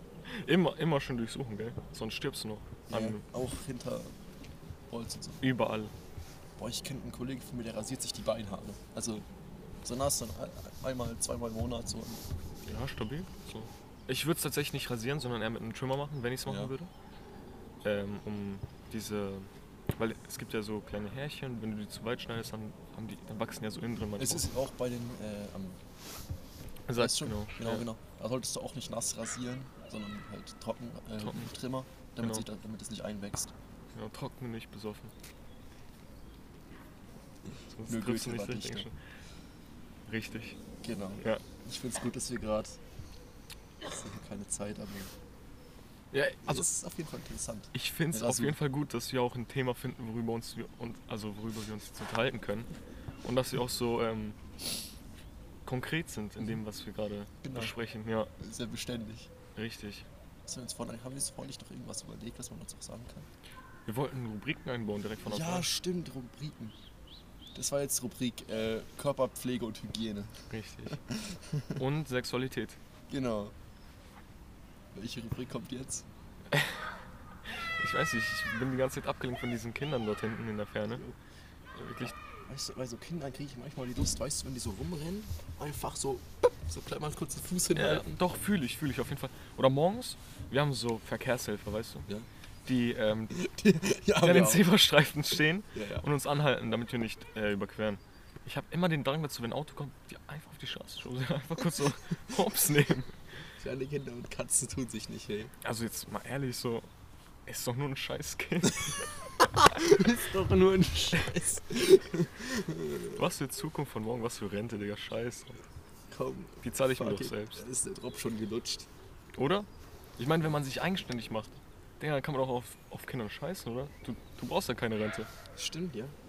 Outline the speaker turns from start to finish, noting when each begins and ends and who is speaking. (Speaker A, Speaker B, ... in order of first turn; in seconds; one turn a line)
Speaker A: 0.2-3.2
Speaker B: 2.9-4.1
Speaker B: 4.9-5.4
Speaker A: 5.4-5.9
Speaker B: 6.6-9.2
Speaker B: 9.8-12.2
Speaker A: 12.7-16.9
Speaker B: 16.4-16.8
Speaker A: 17.8-24.5
Speaker B: 24.2-25.8
Speaker A: 26.9-27.8
Speaker B: 26.9-33.5
Speaker A: 31.2-31.5
Speaker A: 32.2-32.4
Speaker A: 33.9-35.1
Speaker A: 37.7-38.9
Speaker B: 37.9-38.9
Speaker A: 40.1-40.6
Speaker B: 40.8-42.8
Speaker B: 43.9-45.1
Speaker A: 46.1-46.6
Speaker B: 46.5-48.6
Speaker A: 47.7-52.7
Speaker A: 53.2-54.4
Speaker A: 55.6-58.3
Speaker B: 57.4-57.7
Speaker B: 58.4-59.3
Speaker A: 59.5-60.1
Speaker B: 60.5-63.3
Speaker A: 63.9-65.7
Speaker B: 65.2-66.8
Speaker B: 67.5-71.8
Speaker A: 70.5-71.0
Speaker A: 71.8-72.8
Speaker B: 73.1-73.5
Speaker B: 74.9-76.1
Speaker A: 76.5-76.9
Speaker A: 77.4-81.0
Speaker A: 81.8-82.1
Speaker B: 82.0-88.2
Speaker A: 87.7-92.1
Speaker A: 92.7-93.4
Speaker B: 93.3-94.7
Speaker A: 94.2-103.2
Speaker B: 95.7-96.1
Speaker B: 103.6-105.5
Speaker A: 105.6-106.9
Speaker A: 107.4-109.1
Speaker B: 109.4-113.2
Speaker A: 113.2-115.6
Speaker B: 116.1-118.9
Speaker A: 116.6-117.6
Speaker A: 119.3-119.7
Speaker A: 120.2-125.3
Speaker B: 125.5-126.2